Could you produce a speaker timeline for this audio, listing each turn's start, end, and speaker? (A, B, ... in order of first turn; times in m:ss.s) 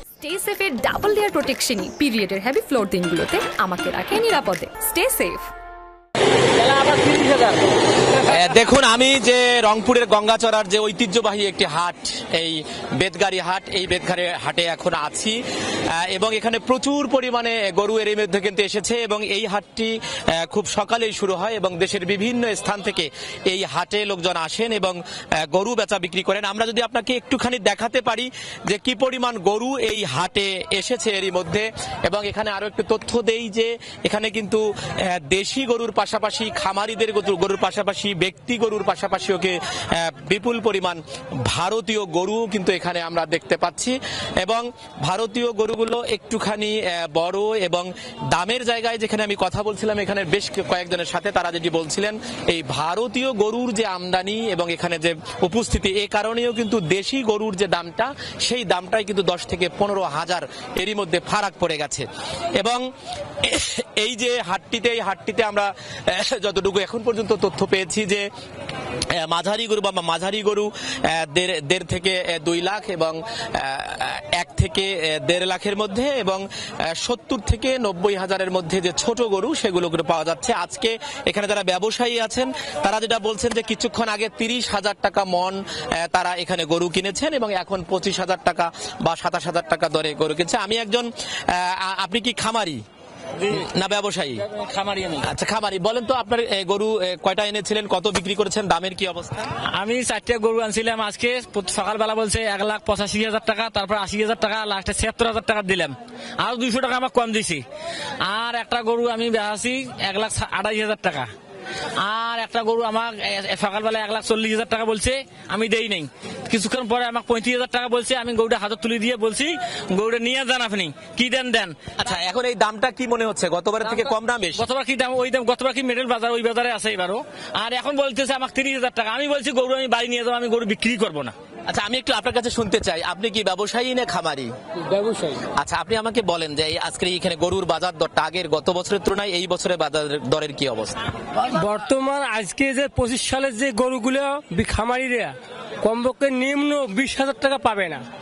0:00.2-0:05.5 A
0:06.5-0:08.5 B
0:08.3-1:02.1 C
1:03.4-1:08.2 C
1:09.1-1:32.8 C
1:33.4-1:33.7 B
1:33.5-1:34.4 C
1:34.4-1:35.3 B
1:35.2-1:39.5 C
1:39.7-1:47.6 B
1:48.2-1:51.3 B
1:52.0-2:01.8 B
2:02.0-2:04.6 C
2:04.0-2:11.3 B
2:11.6-2:14.5 C
2:14.8-2:15.4 D
2:15.6-2:21.0 C
2:21.4-2:28.0 D